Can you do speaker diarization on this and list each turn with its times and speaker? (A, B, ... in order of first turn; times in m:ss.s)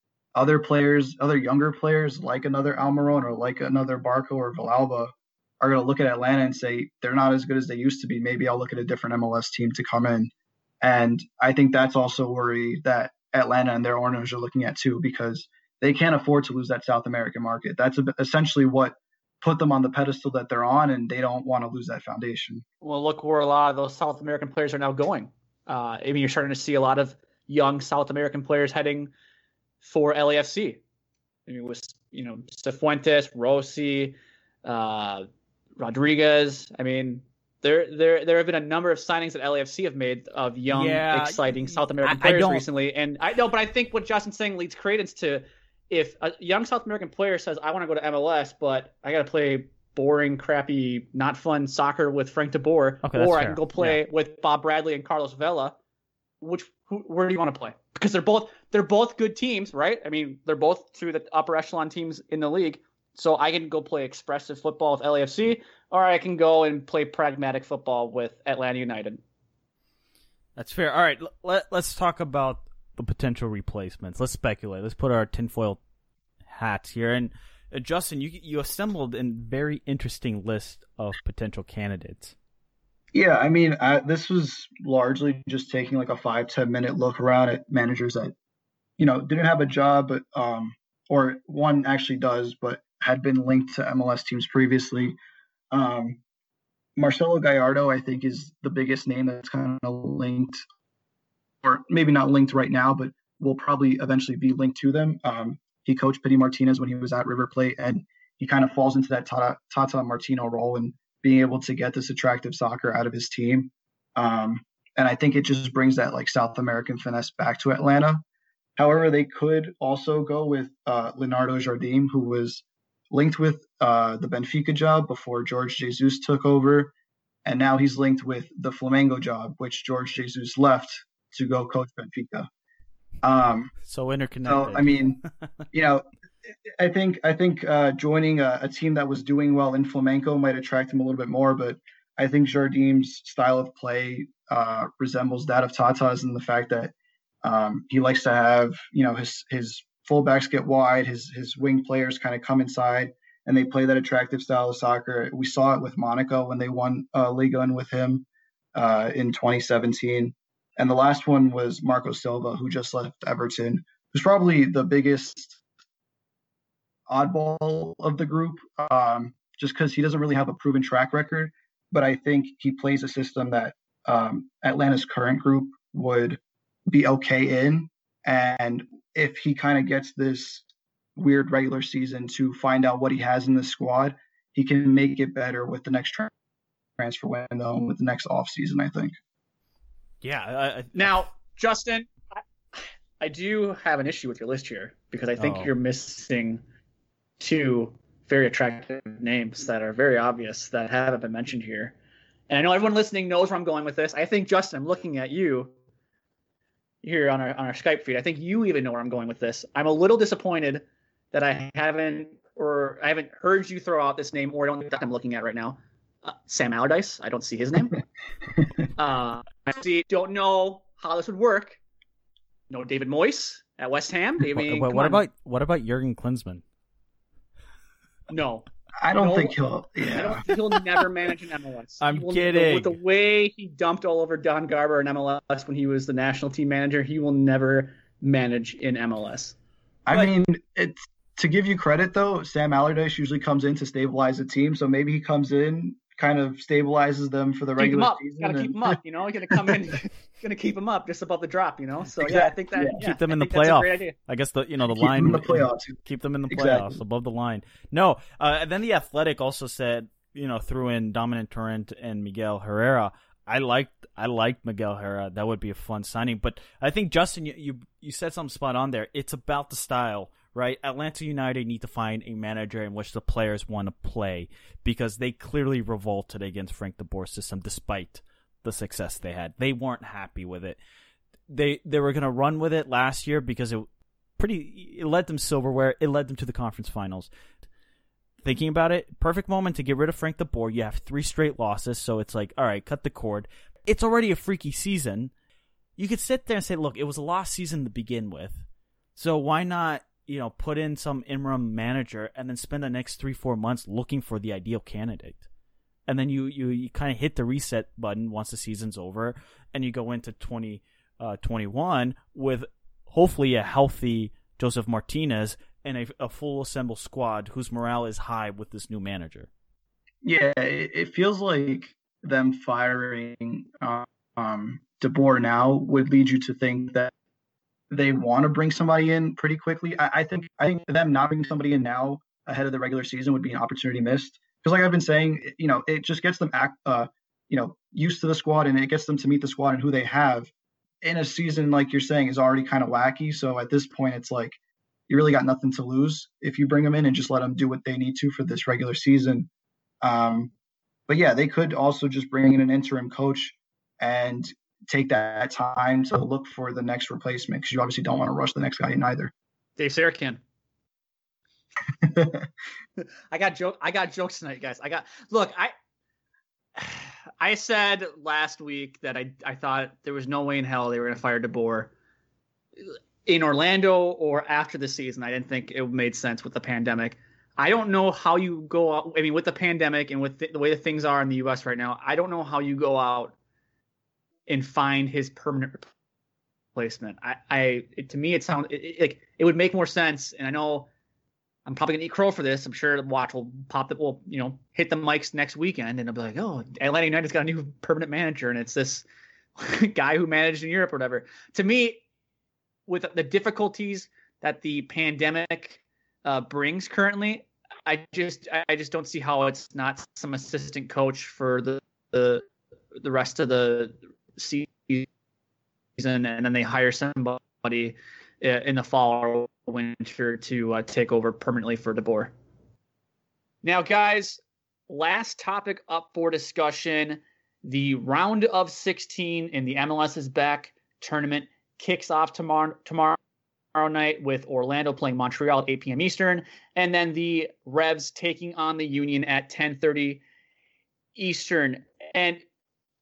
0:00.3-0:22.6 A
0:22.8-0:29.1 B
0:29.8-0:30.8 B
0:31.5-0:35.2 B
0:35.8-0:55.8 B
0:40.7-0:42.6 C
0:53.0-0:54.0 C
0:56.4-1:09.2 B
1:10.6-1:15.8 C
1:16.5-1:22.3 C
1:23.1-1:28.3 A
1:29.0-1:35.1 A
1:35.7-1:36.2 A
1:37.0-1:40.6 A
1:41.6-1:58.2 A
1:58.8-2:06.9 A
2:07.4-2:12.5 A
2:13.2-2:13.7 A
2:13.8-2:15.0 C
2:14.4-2:15.2 A
2:15.7-2:16.0 A
2:16.6-2:26.9 A
2:27.4-2:45.6 A
2:47.1-3:00.6 A
3:01.2-3:06.3 A
3:07.0-3:09.2 A
3:10.2-3:11.3 C
3:11.0-3:16.6 B
3:15.4-3:15.7 C
3:17.4-3:21.9 B
3:22.5-3:25.7 B
3:27.0-3:38.0 B
3:39.0-3:41.8 B
3:42.7-3:45.2 B
3:44.5-3:46.6 C
3:48.3-3:59.5 B
3:49.0-3:50.4 A
3:52.0-3:52.9 C
4:00.1-4:09.0 A
4:07.8-4:14.1 B
4:09.5-4:09.8 A
4:12.2-4:12.9 A
4:13.0-4:40.8 C
4:14.9-4:17.0 A
4:41.5-4:43.8 C
4:44.4-4:47.3 C
4:48.4-4:55.3 C
4:56.0-4:58.6 C
4:59.2-5:05.4 C
5:06.1-5:19.5 C
5:20.2-5:27.1 A
5:27.9-5:40.5 A
5:41.0-5:44.6 A
5:45.1-5:49.5 A
5:50.0-5:50.5 A
5:51.1-5:59.3 A
5:59.8-6:00.4 B
6:02.0-6:02.4 A
6:03.3-6:05.7 B
6:06.8-6:11.9 B
6:13.2-6:23.3 B
6:24.5-6:25.8 B
6:26.8-6:30.9 B
6:31.6-6:39.0 B
6:39.6-6:42.0 B
6:42.9-6:52.4 B
6:53.0-6:55.1 B
6:56.0-7:02.3 B
7:03.6-7:13.2 B
7:13.7-7:20.2 B
7:21.2-7:22.4 B